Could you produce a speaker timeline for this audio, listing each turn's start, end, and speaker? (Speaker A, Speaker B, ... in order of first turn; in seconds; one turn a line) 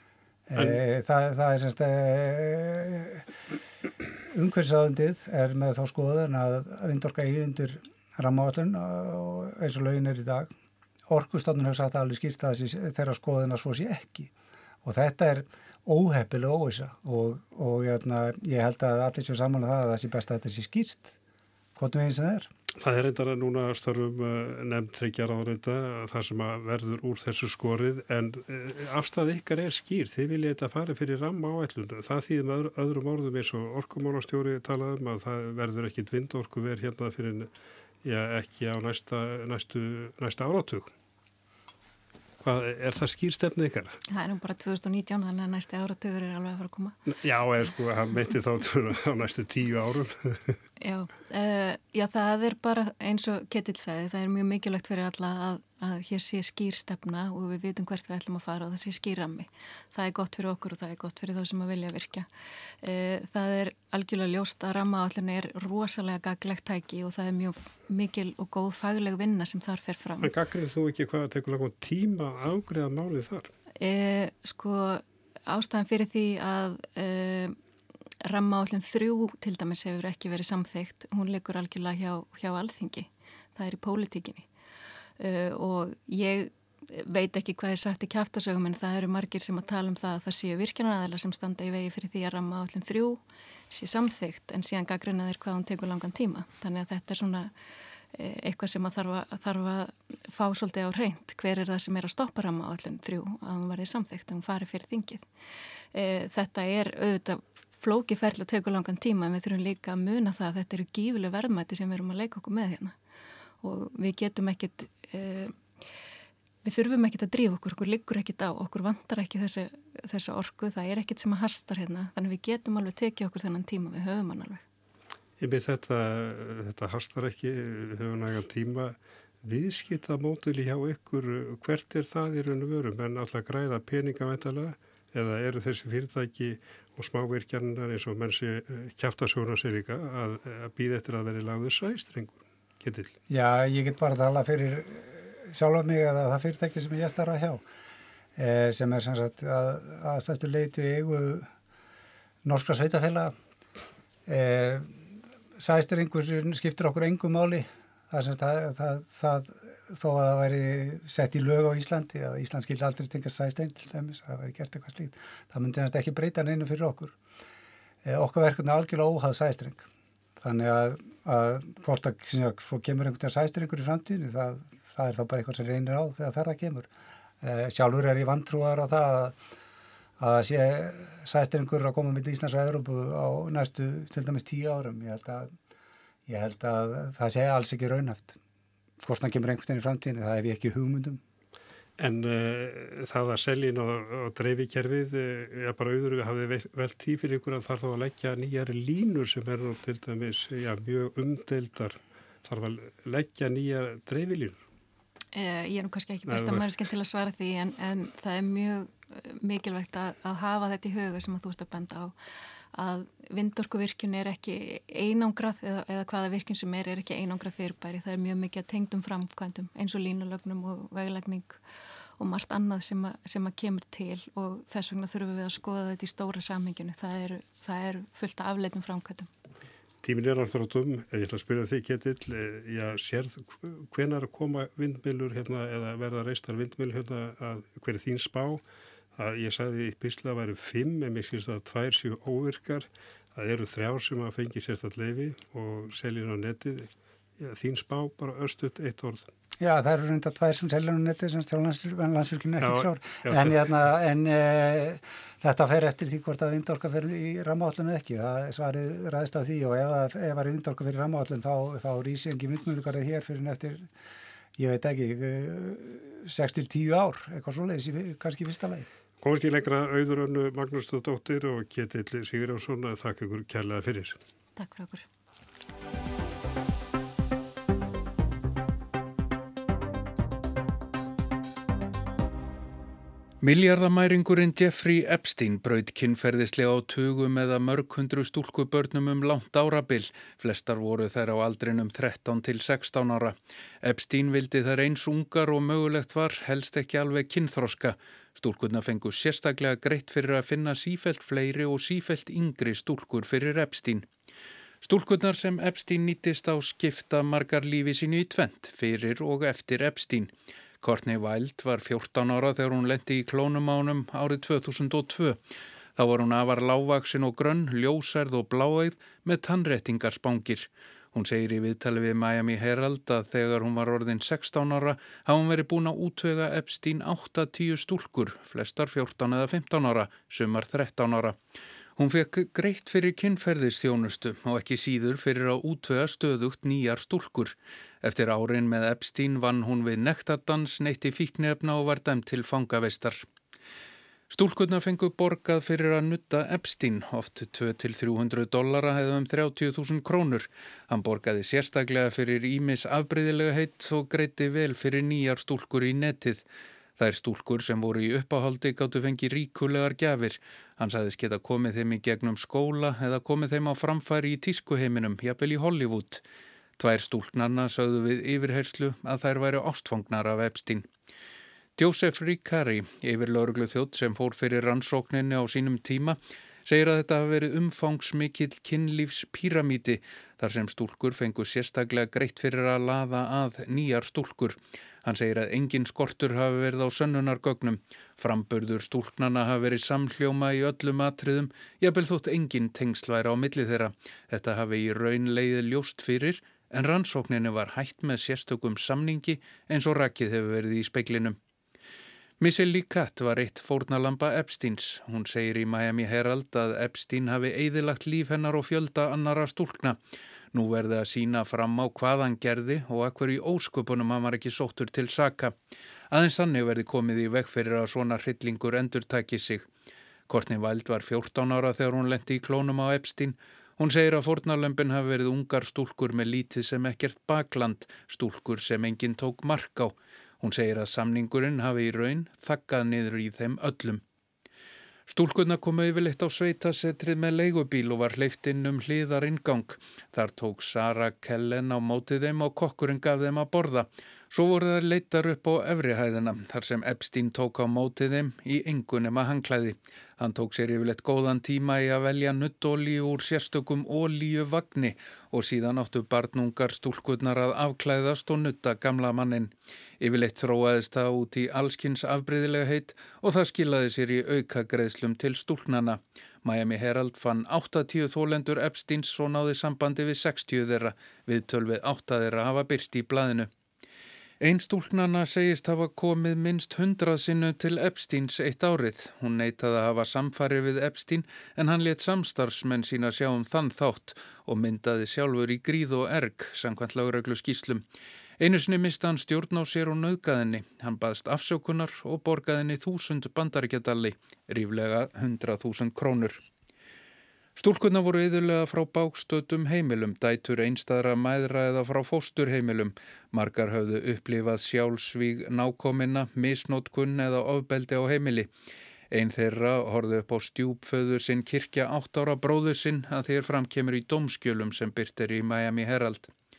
Speaker A: 0.5-3.3
Speaker A: 4.3-10.5
Speaker A: 11.1-14.3
Speaker A: 14.8-21.1
Speaker A: 21.8-22.5
Speaker B: 22.8-37.5
Speaker B: 38.0-40.9
Speaker B: 42.4-44.0
Speaker C: 44.1-47.0
Speaker B: 47.1-50.6
Speaker C: 50.8-62.3
Speaker C: 62.8-70.3
Speaker B: 70.2-73.5
Speaker C: 73.8-77.6
Speaker C: 78.2-84.5
Speaker C: 85.2-97.5
Speaker C: 98.1-105.3
Speaker C: 105.9-112.9
Speaker C: 113.6-115.5
Speaker C: 116.6-124.6
Speaker B: 125.4-143.1
Speaker A: 143.3-147.6
Speaker A: 148.4-151.5
Speaker A: 152.4-153.3
Speaker A: 154.3-155.0
Speaker A: 155.6-167.1
Speaker A: 168.0-169.9
Speaker A: 170.4-176.9
Speaker A: 177.4-179.4
Speaker A: 180.2-185.5
Speaker A: 186.3-188.4
Speaker A: 189.0-191.2
Speaker B: 192.0-204.6
Speaker C: 205.3-212.1
Speaker B: 206.3-206.7
Speaker C: 212.7-221.6
Speaker C: 222.2-229.3
Speaker B: 230.0-238.6
Speaker B: 239.2-249.3
Speaker A: 249.6-263.9
Speaker B: 252.6-253.6
Speaker A: 264.6-268.9
Speaker B: 269.2-274.2
Speaker C: 274.6-275.1
Speaker D: 283.4-304.1
Speaker D: 304.8-315.4
Speaker D: 316.0-331.4
Speaker D: 332.0-343.2
Speaker D: 344.3-356.4
Speaker D: 357.0-366.2
Speaker D: 366.8-370.9
Speaker D: 371.8-401.4
Speaker D: 402.4-410.0
Speaker D: 410.5-415.5
Speaker D: 416.1-419.6
Speaker D: 420.3-434.0
Speaker D: 435.1-473.5
Speaker D: 474.4-487.8
Speaker D: 488.4-496.4
Speaker D: 497.6-508.5
Speaker D: 509.1-516.3